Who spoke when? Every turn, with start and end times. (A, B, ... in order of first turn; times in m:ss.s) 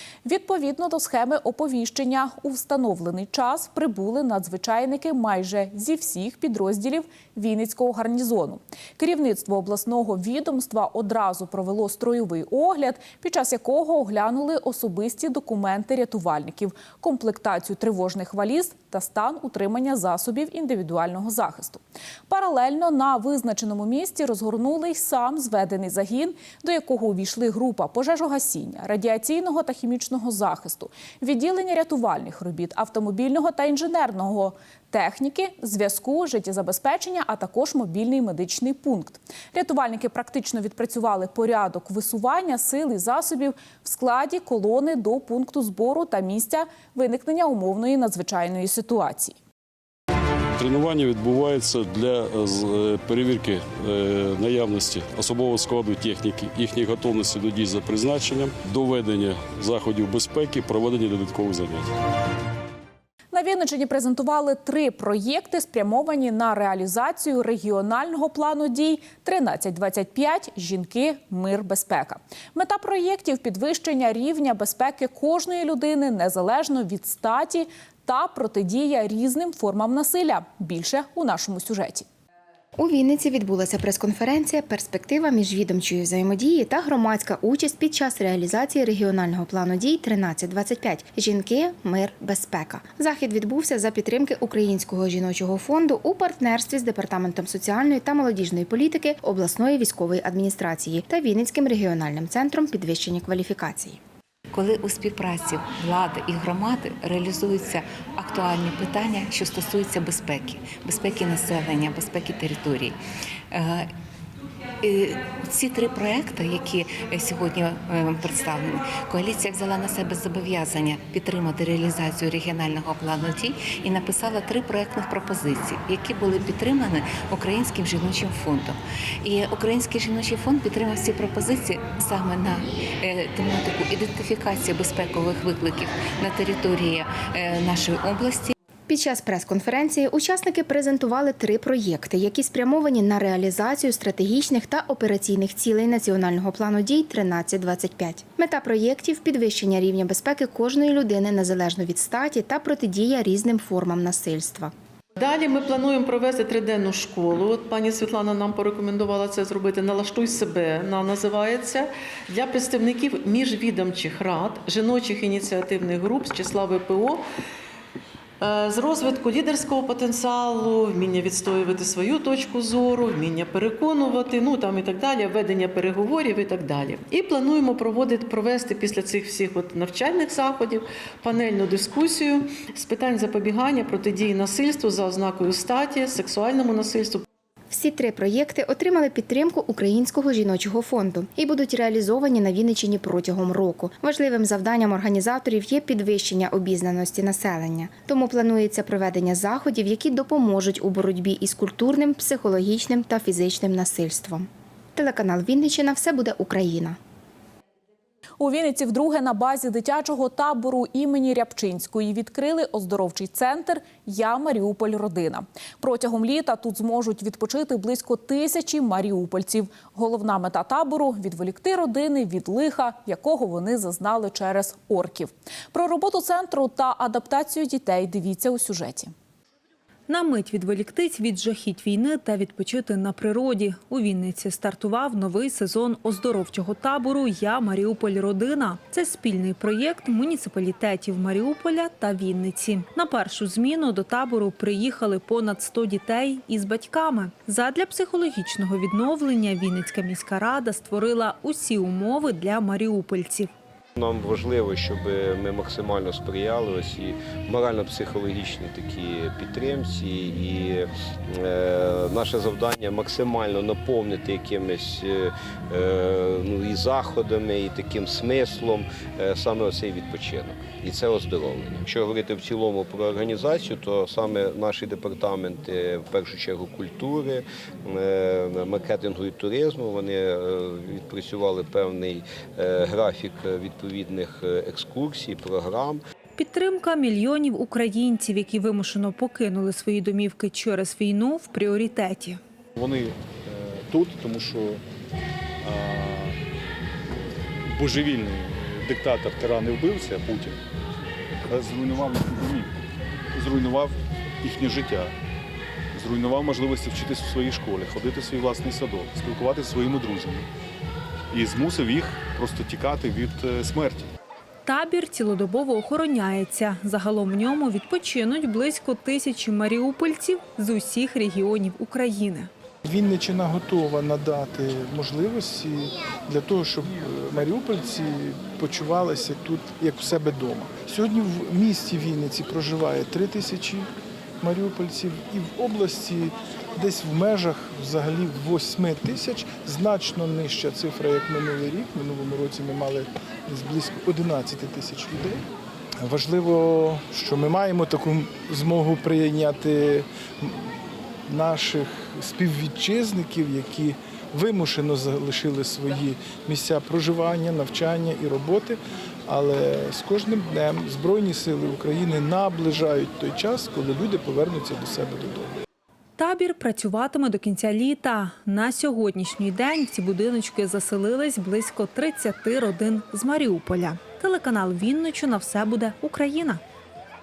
0:00.2-0:49.4 A
0:50.6-1:01.9 B
1:03.3-1:22.1 A
1:22.8-1:44.0 C
1:44.5-1:53.0 D
1:53.5-1:53.9 D
1:54.8-2:18.5 D
2:18.9-2:34.7 C
2:35.2-2:47.2 E
2:48.4-3:07.2 E
3:07.7-3:27.0 C
3:28.4-3:49.1 A
3:50.1-4:13.5 F
4:14.0-4:46.0 G
4:46.4-4:52.4 F
4:53.9-4:54.7 H
4:55.7-4:56.3 H
4:57.8-4:58.4 H
4:58.9-5:00.5 H
5:01.5-5:02.7 H
5:03.4-5:03.9 H
5:04.5-5:05.1 H
5:06.0-5:10.4 H
5:11.3-5:14.0 H
5:14.7-5:22.5 F
5:22.9-5:33.9 I
5:34.4-5:45.4 I
5:46.0-5:50.8 I
5:51.3-6:05.5 I
6:06.2-6:16.6 F